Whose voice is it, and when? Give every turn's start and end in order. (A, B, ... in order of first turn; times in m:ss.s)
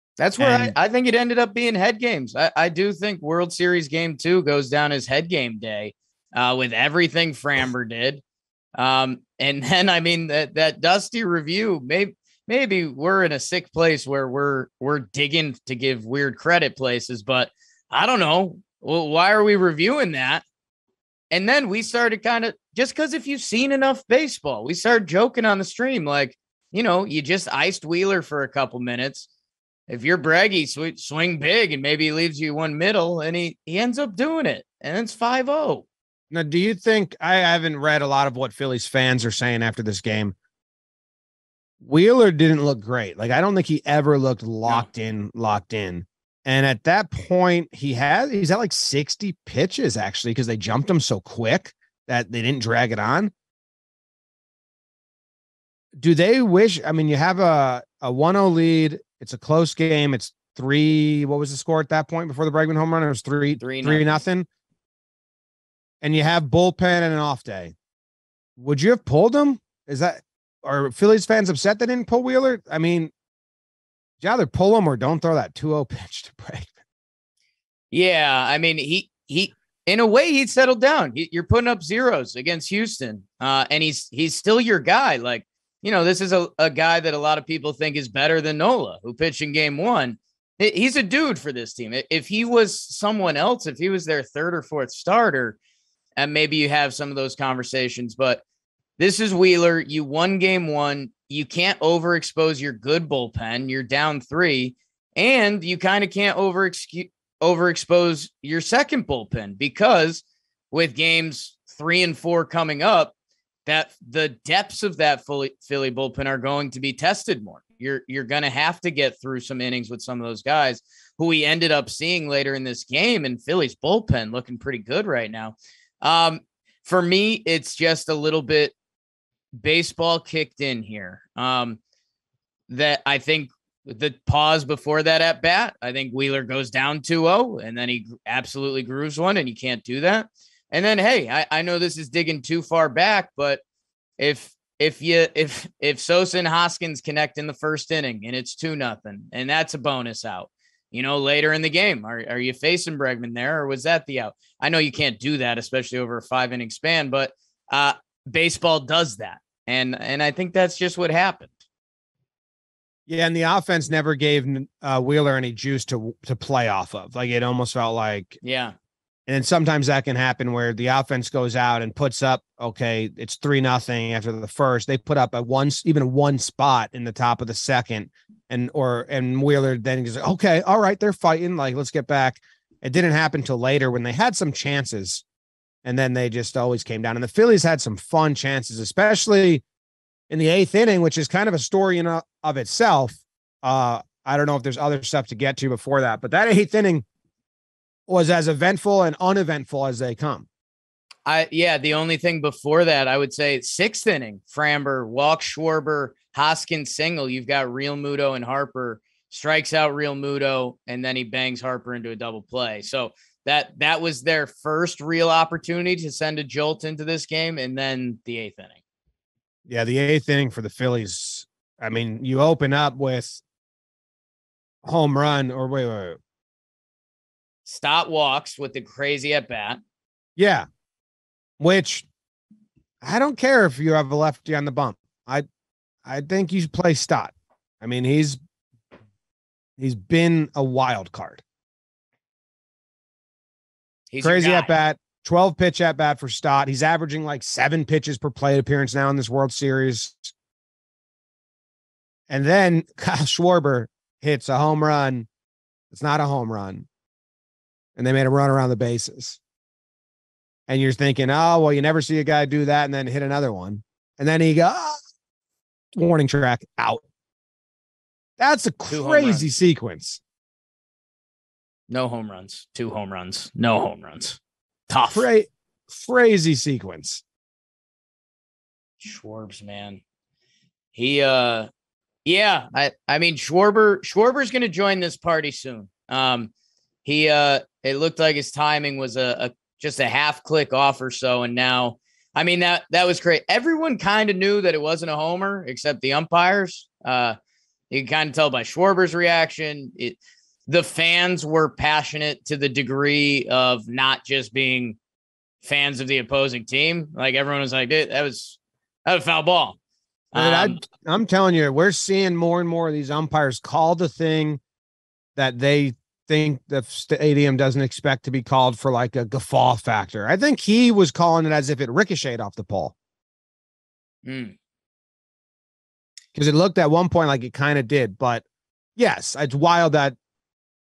0:00.2-0:08.2 A
0:00.4-0:00.8 B
0:08.8-0:20.4 A
0:21.3-0:29.3 A
0:29.9-0:35.8 A
0:36.3-0:40.4 B
0:41.8-0:53.3 B
0:56.0-1:04.5 B
1:03.6-1:04.1 A
1:06.0-1:07.8 B
1:08.6-1:13.1 B
1:14.2-1:16.8 B
1:17.9-1:35.6 A
1:36.2-1:38.4 A
1:39.0-1:53.1 A
1:53.7-2:08.7 A
2:09.6-2:11.8 A
2:12.7-2:23.6 A
2:24.2-2:41.6 A
2:43.1-2:48.4 B
2:48.4-2:48.8 A
2:49.3-3:05.2 B
3:05.8-3:09.6 B
3:10.3-3:17.0 B
3:18.1-3:20.5 B
3:21.3-3:38.8 A
3:39.7-3:43.4 B
3:44.8-3:46.2 B
3:47.6-3:49.8 A
3:50.4-3:50.7 B
3:51.6-3:52.1 B
3:53.0-3:55.5 B
3:56.0-3:58.4 B
3:59.8-4:01.4 B
4:04.1-4:04.7 A
4:04.2-4:10.3 B
4:12.3-4:15.3 B
4:15.9-4:16.9 B
4:18.0-4:19.4 B
4:20.7-4:25.0 B
4:26.0-4:27.0 B
4:28.4-4:30.2 B
4:28.9-4:29.5 A
4:31.9-4:35.3 A
4:35.1-4:37.2 B
4:39.0-4:40.0 A
4:40.9-4:41.7 A
4:42.2-4:46.5 A
4:47.0-4:57.4 A
4:57.9-5:05.0 A
5:05.6-5:09.8 A
5:10.3-5:10.8 A
5:10.3-5:14.6 B
5:15.4-5:22.9 B
5:24.2-5:24.6 A
5:26.4-5:28.4 B
5:29.0-5:30.2 B